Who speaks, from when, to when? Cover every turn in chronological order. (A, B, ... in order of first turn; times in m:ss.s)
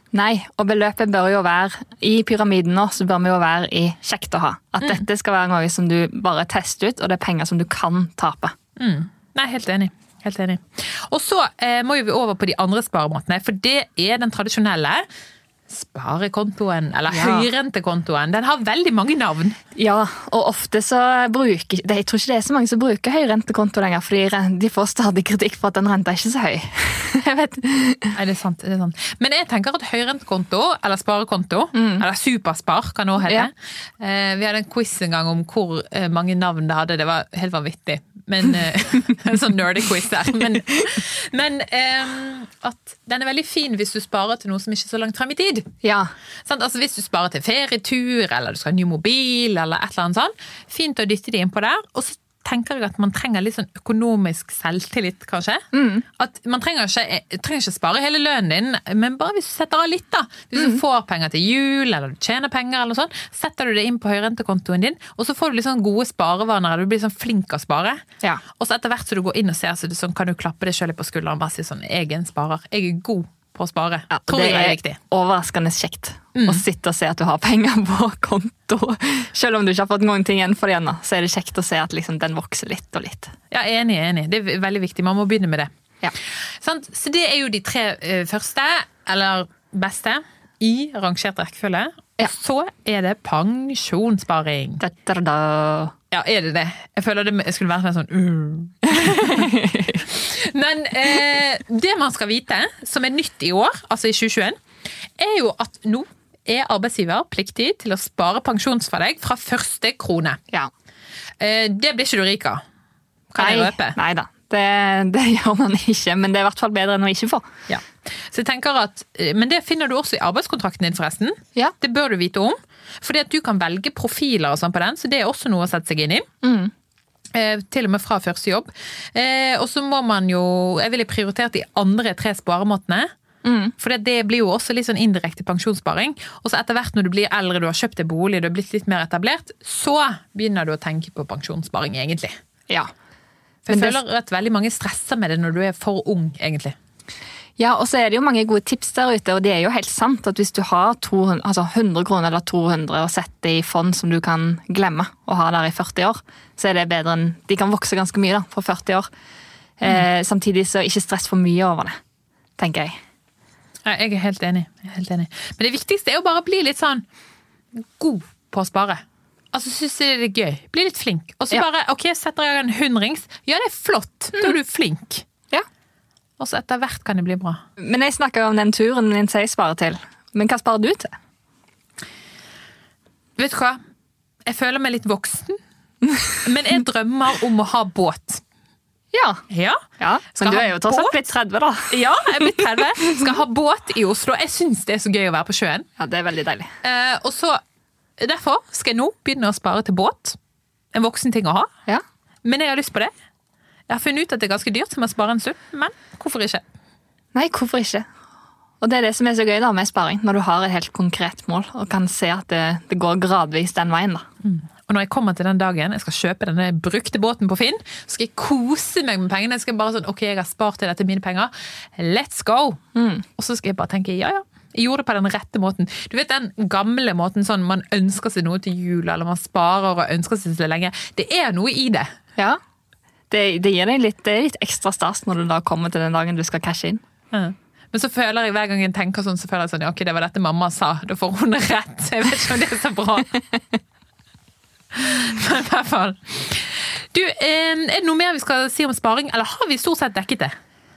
0:00.1-0:08.6 A
0:08.8-0:15.1 B
0:15.7-0:19.6 B
0:17.1-0:17.5 A
0:19.8-0:28.2 A
0:28.2-0:45.7 B
0:31.8-0:32.0 A
0:33.2-0:33.5 A
0:45.8-0:46.1 A
0:46.5-0:55.6 B
0:55.7-0:56.0 A
0:56.2-1:08.0 B
1:00.6-1:00.8 A
1:08.6-1:15.0 B
1:14.1-1:23.3 A
1:16.4-1:16.6 B
1:23.5-1:25.7 B
1:26.2-1:34.8 B
1:34.8-1:35.9 A
1:36.1-1:44.6 B
1:39.0-1:40.0 A
1:45.2-1:50.4 B
1:51.4-1:52.6 B
1:53.3-1:54.0 B
1:53.4-1:57.4 A
1:57.7-2:06.3 B
2:06.4-2:06.7 A
2:07.3-2:13.1 B
2:13.4-2:13.7 A
2:13.8-2:22.4 B
2:23.7-2:26.8 B
2:23.7-2:24.0 A
2:27.6-2:39.1 A
2:39.8-2:42.0 A
2:42.6-2:43.0 A
2:43.8-2:47.0 B
2:48.0-2:49.0 B
2:49.5-2:55.3 B
2:56.4-2:57.6 B
2:57.8-3:01.1 A
3:03.4-3:03.8 B
3:04.5-3:05.6 B
3:06.4-3:08.4 B
3:09.1-3:09.4 A
3:09.5-3:09.8 B
3:10.0-3:12.6 A
3:10.3-3:11.2 B
3:11.9-3:15.9 B
3:16.0-3:16.7 A
3:16.8-3:17.6 B
3:18.2-3:20.4 B
3:20.9-3:21.7 B
3:22.4-3:23.1 B
3:23.9-3:26.6 B
3:27.4-3:28.1 A
3:28.8-3:34.2 A
3:34.4-3:42.8 B
3:43.0-3:43.2 A
3:43.4-3:52.1 B
3:53.3-3:57.0 A
3:57.3-4:03.4 B
4:04.9-4:10.6 B